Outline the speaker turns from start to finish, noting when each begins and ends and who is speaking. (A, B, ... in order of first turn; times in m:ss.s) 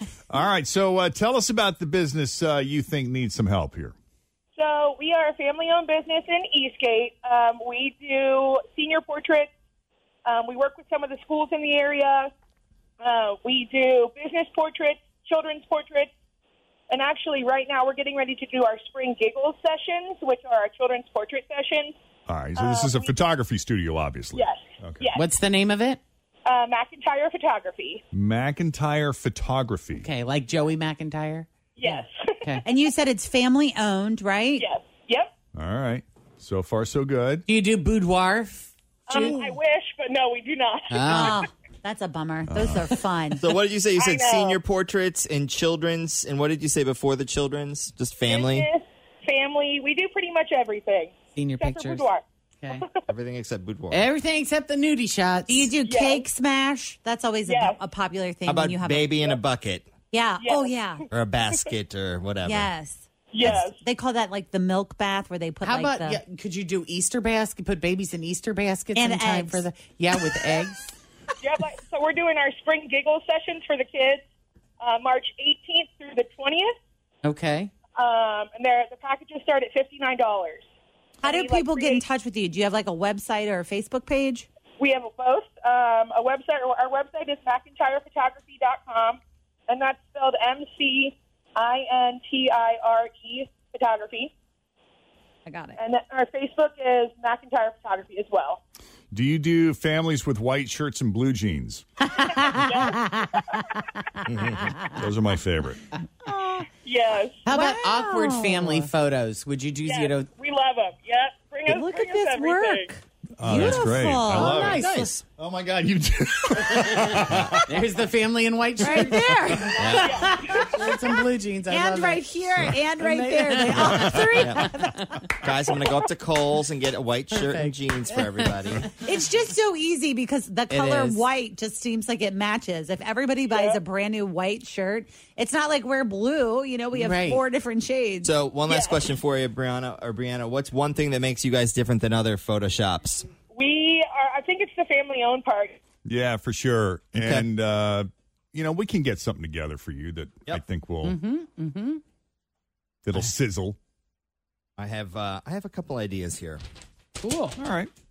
0:00.3-0:03.9 A
0:04.5-0:09.5 B
0:10.2-0:12.3 B
0:13.0-0:16.1 B
0:16.9-0:21.9 B
0:22.3-0:25.1 A
0:22.6-0:23.1 B
0:24.3-0:25.2 B
0:25.1-0:26.0 C
0:26.4-0:28.0 B
0:28.1-0:30.1 A
0:30.0-0:32.6 C
0:31.8-0:32.1 B
0:32.6-0:34.7 D
0:34.6-0:35.3 B
0:35.5-0:37.4 A
0:37.4-0:39.6 C
0:39.1-0:41.3 B
0:40.9-0:41.4 C
0:41.0-0:43.4 D
0:42.5-0:42.8 A
0:43.3-0:48.7 E
0:44.0-0:44.6 B
0:48.3-0:53.0 B
0:51.3-0:52.1 C
0:53.1-0:54.1 E
0:53.9-0:55.8 C
0:55.5-0:59.4 D
0:55.8-0:56.2 B
0:57.5-0:57.8 B
0:58.5-0:59.9 E
1:00.1-1:01.0 D
1:00.4-1:00.7 B
1:01.1-1:02.7 E
1:02.4-1:06.2 D
1:03.3-1:03.8 B
1:05.6-1:10.9 C
1:08.9-1:09.6 D
1:11.4-1:14.2 B
1:14.8-1:16.7 B
1:17.2-1:17.7 C
1:18.0-1:20.6 B
1:21.2-1:24.5 D
1:21.2-1:22.0 B
1:24.8-1:34.3 B
1:35.4-1:35.8 D
1:35.8-1:38.6 B
1:39.1-1:41.8 A
1:42.0-1:44.9 D
1:42.6-1:43.0 B
1:44.9-1:45.8 A
1:46.2-1:46.6 D
1:46.8-1:47.4 B
1:47.4-1:50.3 C
1:47.5-1:48.9 D
1:49.8-1:52.9 B
1:51.6-1:54.9 D
1:53.4-1:57.6 A
1:53.4-1:55.2 C
1:54.6-1:55.2 E
1:56.7-1:59.6 C
1:58.8-2:05.1 D
1:59.8-2:00.3 E
2:00.0-2:00.6 B
2:00.6-2:05.2 C
2:04.4-2:04.7 E
2:05.4-2:08.9 E
2:07.3-2:08.9 C
2:09.0-2:18.4 D
2:10.7-2:11.3 C
2:13.5-2:13.8 B
2:16.9-2:17.4 C
2:18.2-2:23.3 E
2:18.7-2:19.0 B
2:23.5-2:25.8 B
2:26.0-2:31.2 A
2:27.2-2:27.5 E
2:31.0-2:32.0 C
2:33.0-2:33.8 A
2:34.8-2:36.6 E
2:37.2-2:37.6 C
2:37.6-2:37.9 A